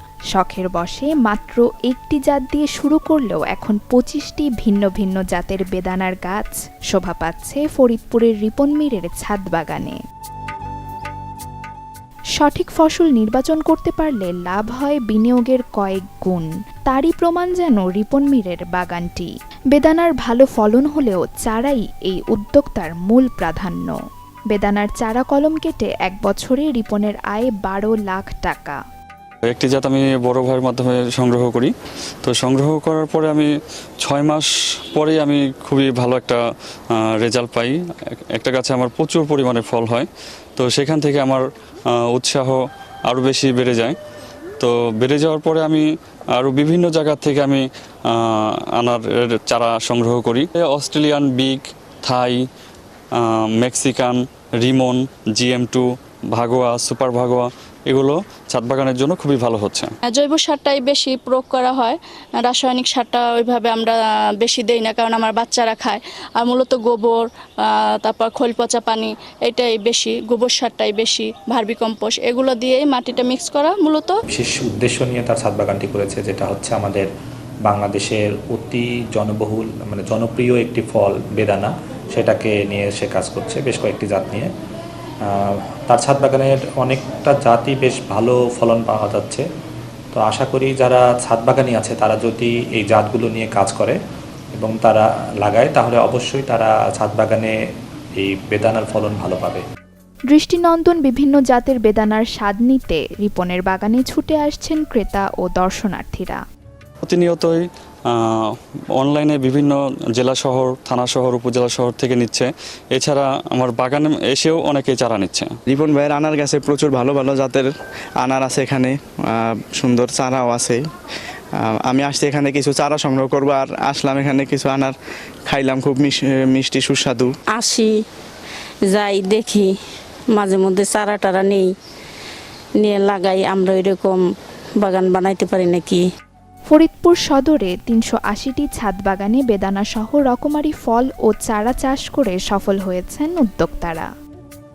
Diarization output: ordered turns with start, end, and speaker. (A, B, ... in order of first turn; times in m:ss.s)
0:00.3-0:10.0 A
0:12.4-0:24.0 A
0:24.5-0:28.8 A
0:29.5-0:31.7 B
0:32.2-0:33.5 B
0:34.0-0:36.4 B
0:37.0-0:37.7 B
0:38.3-0:44.0 B
0:44.6-0:52.4 B
0:53.2-0:59.9 B
1:00.1-1:14.1 C
1:14.3-1:17.1 D
1:17.6-1:24.5 D
1:25.9-1:29.4 D
1:30.1-1:34.0 D
1:34.6-1:37.5 D
1:38.2-1:39.6 D
1:40.3-1:46.4 A
1:47.0-1:55.5 B
1:55.7-1:57.7 E
1:58.2-2:00.8 E
2:01.6-2:04.9 E
2:05.5-2:07.3 E
2:07.5-2:07.9 F
2:08.9-2:09.6 F
2:10.3-2:11.6 F
2:12.8-2:14.2 F
2:14.8-2:16.0 F
2:16.7-2:24.1 A